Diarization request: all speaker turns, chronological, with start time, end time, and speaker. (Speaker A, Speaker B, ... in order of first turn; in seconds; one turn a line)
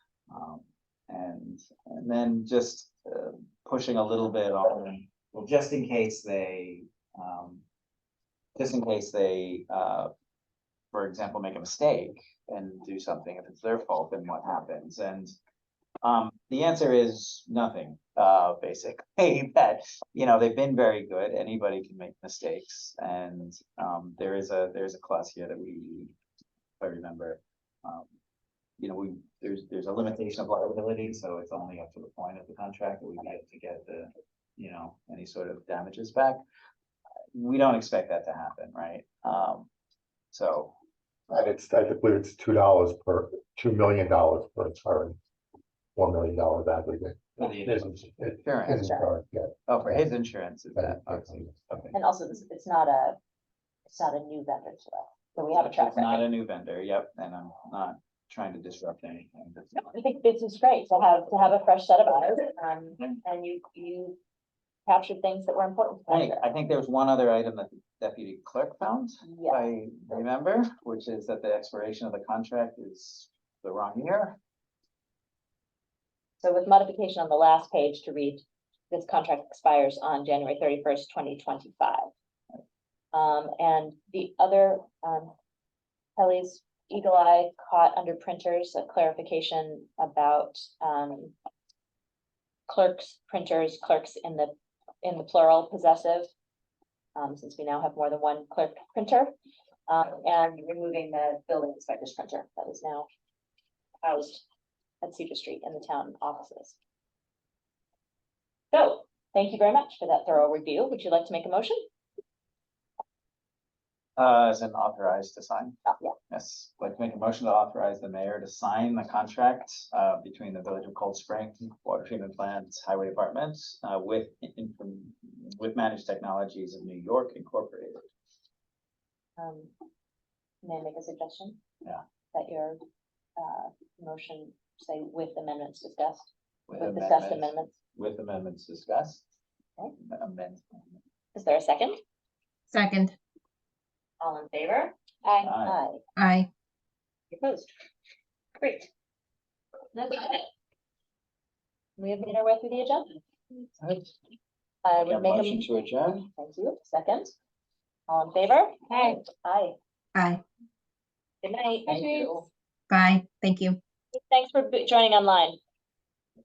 Speaker A: 0.3-7.6
Speaker A: 8.6-10.1
Speaker A: 10.9-15.3
Speaker A: 16.0-26.1
Speaker A: 26.8-28.1
Speaker A: 28.8-36.4
Speaker A: 37.3-39.7
Speaker A: 40.3-40.7
Speaker B: 41.3-45.1
Speaker B: 45.9-50.1
Speaker A: 47.4-48.9
Speaker C: 48.7-49.1
Speaker A: 49.7-51.9
Speaker B: 50.7-51.9
Speaker C: 51.9-53.2
Speaker C: 53.9-56.2
Speaker A: 55.6-59.9
Speaker C: 59.8-64.2
Speaker C: 64.9-66.4
Speaker A: 66.1-74.4
Speaker C: 69.2-69.6
Speaker C: 76.4-82.0
Speaker C: 83.1-85.3
Speaker C: 86.2-91.3
Speaker C: 92.7-96.3
Speaker C: 97.2-99.3
Speaker C: 99.9-103.1
Speaker C: 104.0-104.4
Speaker C: 105.0-106.8
Speaker C: 108.7-111.8
Speaker A: 114.2-115.8
Speaker A: 116.3-128.1
Speaker C: 129.4-129.7
Speaker C: 130.6-131.6
Speaker C: 132.3-132.8
Speaker C: 133.4-137.8
Speaker A: 136.7-139.2
Speaker A: 140.0-141.0
Speaker C: 141.3-142.0
Speaker D: 142.7-143.1
Speaker C: 144.2-146.0
Speaker A: 145.4-145.8
Speaker D: 146.2-146.5
Speaker C: 147.3-147.7
Speaker C: 148.6-148.9
Speaker C: 149.9-150.5
Speaker C: 152.0-153.2
Speaker A: 153.8-154.1
Speaker C: 154.8-157.3
Speaker A: 155.0-156.3
Speaker C: 158.1-159.8
Speaker D: 160.1-160.4
Speaker C: 161.4-162.4
Speaker A: 161.9-162.4
Speaker D: 162.9-163.8
Speaker C: 164.1-165.6